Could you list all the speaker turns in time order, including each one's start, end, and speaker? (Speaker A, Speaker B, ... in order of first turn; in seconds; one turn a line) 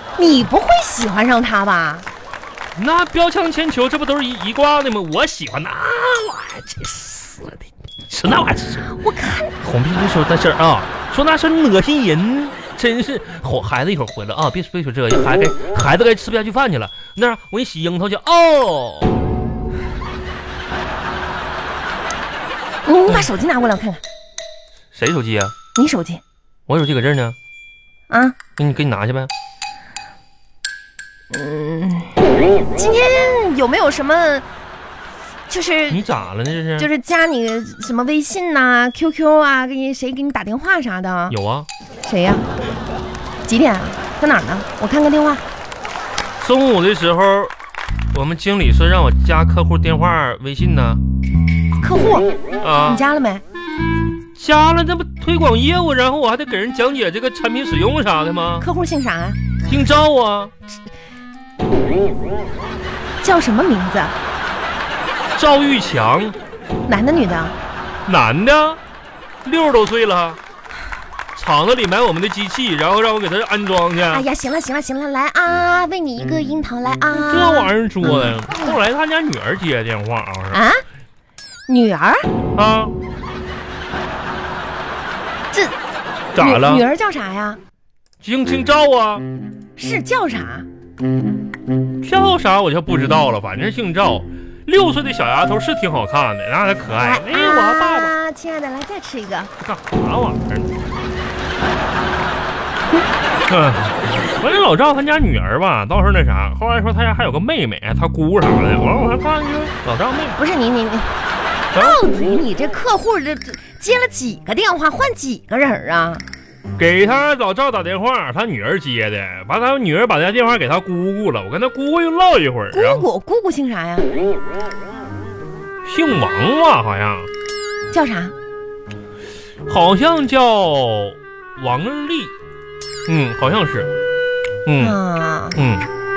Speaker A: 0.2-2.0
Speaker B: 2.8-8.9
Speaker A: 8.9-9.5
Speaker B: 9.6-19.1
Speaker A: 22.9-24.0
Speaker B: 24.9-25.5
Speaker A: 25.8-26.2
Speaker B: 26.7-27.4
Speaker A: 28.1-28.4
Speaker B: 28.6-29.3
Speaker A: 31.3-32.2
Speaker A: 32.7-34.5
Speaker A: 35.5-36.0
Speaker B: 35.9-36.9
Speaker A: 36.8-41.4
Speaker B: 41.3-41.7
Speaker A: 42.0-42.5
Speaker A: 43.5-45.4
Speaker B: 46.4-47.5
Speaker B: 48.1-51.0
Speaker A: 51.8-53.4
Speaker B: 52.6-53.0
Speaker B: 54.4-58.6
Speaker A: 58.6-59.4
Speaker B: 59.6-60.5
Speaker A: 63.2-64.1
Speaker B: 65.3-66.4
Speaker A: 66.9-67.5
Speaker B: 68.0-68.8
Speaker B: 69.4-70.4
Speaker B: 71.3-74.2
Speaker A: 74.1-78.8
Speaker B: 77.3-80.6
Speaker A: 80.5-80.8
Speaker A: 81.7-82.2
Speaker B: 82.5-82.9
Speaker B: 86.3-86.8
Speaker A: 86.4-87.6
Speaker B: 88.2-89.2
Speaker A: 89.8-90.7
Speaker B: 92.0-98.1
Speaker A: 96.9-99.5
Speaker B: 99.6-100.7
Speaker B: 103.5-110.4
Speaker A: 110.3-111.1
Speaker A: 111.7-116.2
Speaker B: 116.8-123.1
Speaker A: 122.7-124.1
Speaker B: 125.8-127.3
Speaker A: 127.9-128.3
Speaker B: 129.7-132.3
Speaker B: 133.1-133.9
Speaker B: 134.7-135.0
Speaker A: 134.8-135.6
Speaker B: 135.5-135.8